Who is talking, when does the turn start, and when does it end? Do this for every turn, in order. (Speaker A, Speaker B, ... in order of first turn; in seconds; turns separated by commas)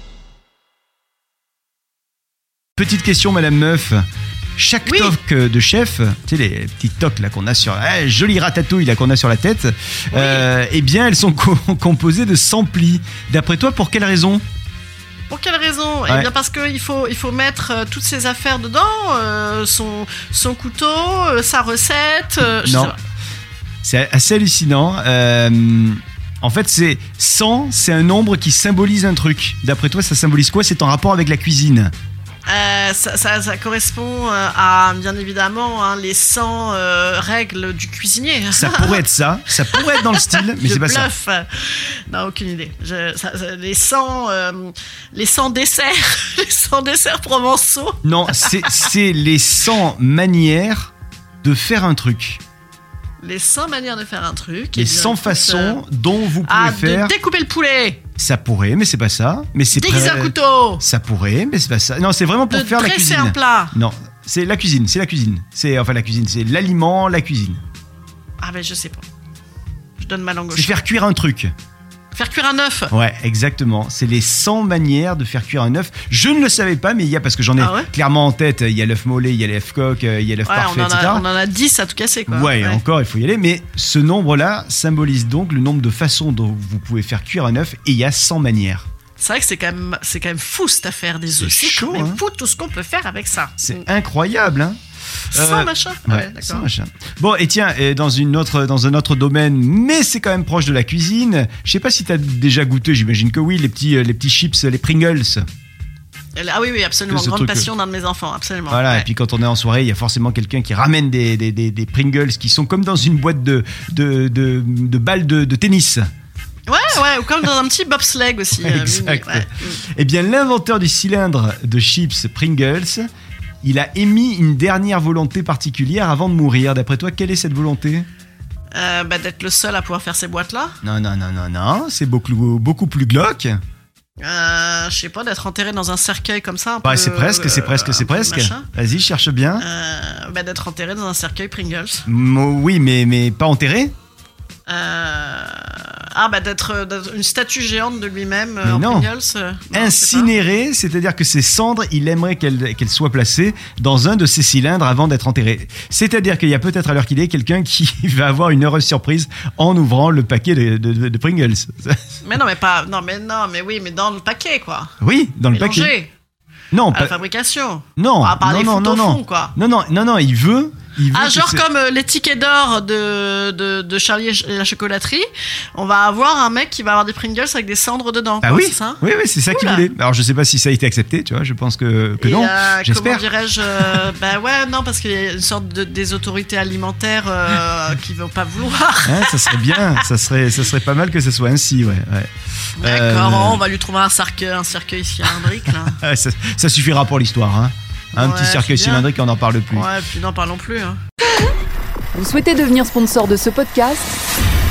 Speaker A: 2.8-4.0, Speaker A: 4.6-14.4, Speaker B: 4.9-5.2, Speaker B: 10.1-10.5, Speaker B: 15.3-23.0, Speaker A: 22.6-22.9, Speaker A: 23.8-31.9, Speaker B: 32.5-48.9, Speaker A: 38.5-41.1, Speaker A: 48.0-52.4, Speaker B: 53.2-55.8, Speaker A: 54.7-57.1, Speaker B: 56.4-58.0, Speaker A: 58.2-67.6, Speaker B: 59.7-60.8, Speaker B: 62.5-63.8, Speaker B: 68.4-69.1, Speaker B: 70.0-70.8, Speaker A: 70.5-71.5, Speaker B: 72.1-72.9, Speaker A: 72.9-81.2, Speaker B: 77.6-77.9, Speaker B: 80.4-82.8, Speaker A: 82.3-88.9, Speaker B: 89.2-93.8, Speaker A: 91.4-92.2, Speaker A: 93.6-94.8, Speaker B: 95.3-96.7, Speaker A: 95.3-105.4, Speaker B: 106.4-109.1, Speaker A: 107.1-107.7, Speaker A: 108.7-116.0, Speaker B: 116.7-119.8, Speaker A: 118.6-123.1, Speaker A: 123.6-128.1, Speaker B: 128.7-130.8, Speaker A: 130.8-133.6, Speaker B: 134.2-138.7, Speaker A: 136.8-139.7, Speaker B: 139.6-142.1, Speaker A: 142.1-143.9, Speaker B: 144.7-150.3, Speaker A: 148.6-149.1, Speaker A: 149.7-162.0, Speaker B: 162.2-164.9, Speaker A: 165.0-165.9, Speaker B: 165.5-166.1, Speaker A: 166.7-167.2, Speaker B: 166.9-169.5, Speaker A: 168.0-171.7, Speaker B: 171.1-179.8, Speaker A: 178.4-184.1, Speaker B: 182.2-190.1, Speaker A: 189.1-193.6, Speaker B: 192.8-196.0, Speaker A: 195.4-199.9, Speaker B: 198.2-199.1, Speaker B: 199.7-201.0, Speaker C: 202.1-204.2